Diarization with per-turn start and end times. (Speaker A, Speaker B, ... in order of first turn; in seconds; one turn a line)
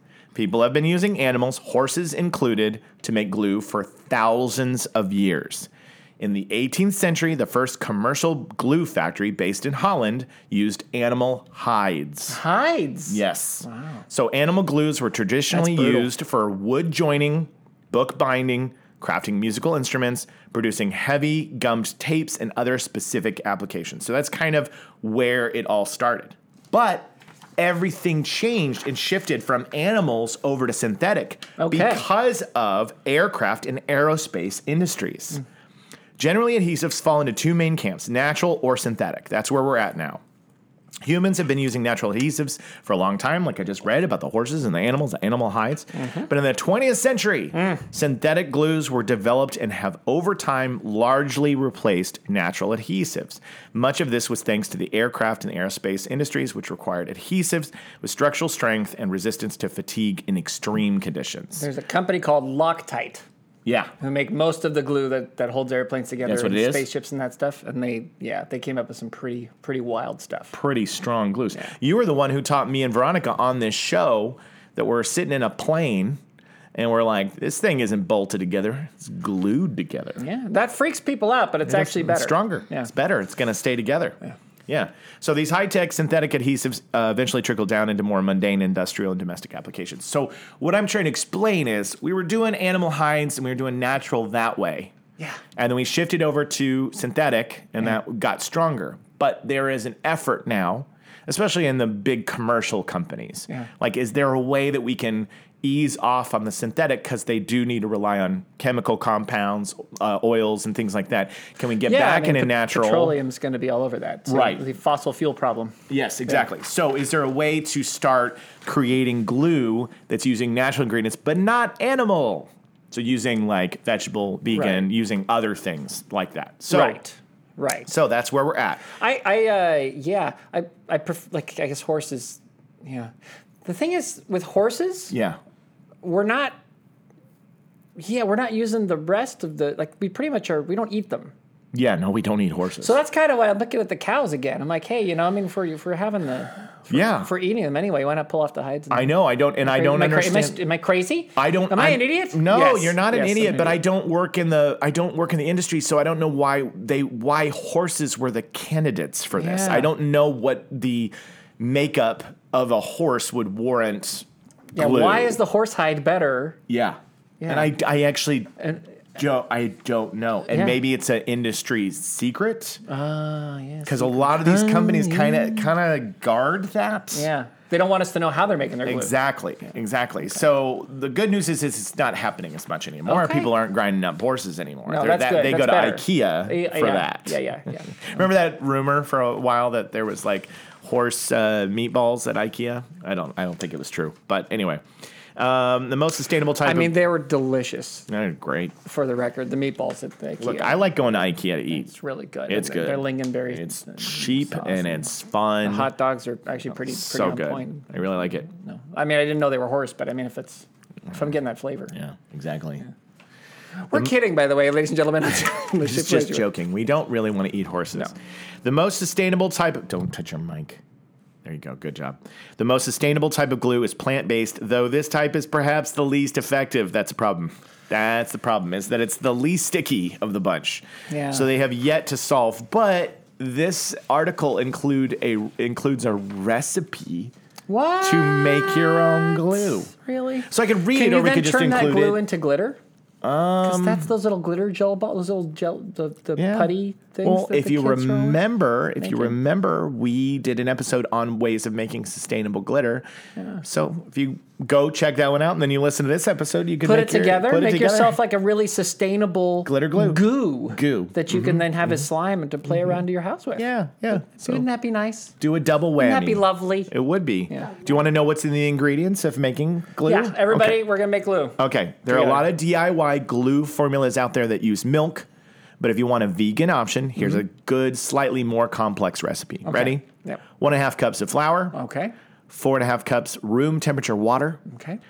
Speaker A: 0.3-12.4
Speaker B: 12.3-14.0
Speaker A: 13.1-35.4
Speaker B: 15.5-16.1
Speaker B: 31.6-32.0
Speaker A: 36.2-40.2
Speaker A: 41.0-61.6
Speaker B: 46.0-46.3
Speaker B: 47.5-47.8
Speaker B: 61.6-63.2
Speaker A: 63.6-63.9
Speaker B: 64.0-70.5
Speaker A: 66.2-66.9
Speaker A: 70.5-76.2
Speaker A: 76.7-80.2
Speaker B: 80.2-82.9
Speaker A: 81.6-94.9
Speaker A: 95.5-113.2
Speaker B: 111.8-115.8
Speaker A: 114.3-114.6
Speaker A: 115.9-127.0
Speaker B: 124.5-124.8
Speaker B: 126.7-127.9
Speaker A: 127.9-128.8
Speaker B: 128.9-133.1
Speaker B: 133.6-135.1
Speaker A: 135.1-135.4
Speaker B: 136.0-136.6
Speaker B: 137.9-141.3
Speaker A: 141.7-142.9
Speaker B: 142.8-153.8
Speaker A: 146.9-147.3
Speaker A: 148.9-150.6
Speaker A: 151.3-165.4
Speaker B: 159.4-159.9
Speaker B: 164.7-166.6
Speaker A: 166.7-168.6
Speaker B: 167.4-167.7
Speaker A: 169.1-172.8
Speaker B: 170.5-170.8
Speaker B: 172.8-175.6
Speaker A: 173.8-177.3
Speaker B: 177.1-179.1
Speaker A: 178.8-187.4
Speaker B: 183.1-183.5
Speaker B: 184.9-188.0
Speaker A: 188.0-194.8
Speaker A: 195.3-196.9
Speaker B: 196.6-198.1
Speaker A: 198.1-198.7
Speaker B: 198.8-200.8
Speaker A: 200.4-201.9
Speaker B: 201.7-205.1
Speaker A: 202.5-205.9
Speaker B: 205.6-207.9
Speaker A: 206.9-208.4
Speaker B: 208.4-211.9
Speaker A: 211.9-212.8
Speaker B: 213.8-216.4
Speaker A: 215.8-220.8
Speaker A: 221.4-237.3
Speaker B: 231.1-231.5
Speaker B: 237.7-242.8
Speaker A: 238.0-239.9
Speaker A: 240.5-242.2
Speaker A: 243.2-244.1
Speaker B: 243.6-248.4
Speaker A: 246.4-253.0
Speaker B: 249.0-249.3
Speaker B: 253.4-253.6
Speaker A: 253.6-258.2
Speaker B: 256.8-265.3
Speaker A: 259.6-261.7
Speaker A: 263.6-264.6
Speaker A: 265.4-270.9
Speaker B: 266.0-266.9
Speaker B: 267.5-267.8
Speaker B: 270.0-272.5
Speaker A: 271.6-275.3
Speaker A: 275.8-280.0
Speaker B: 279.6-280.4
Speaker A: 280.6-281.8
Speaker B: 281.7-282.1
Speaker A: 282.5-284.6
Speaker B: 284.7-285.0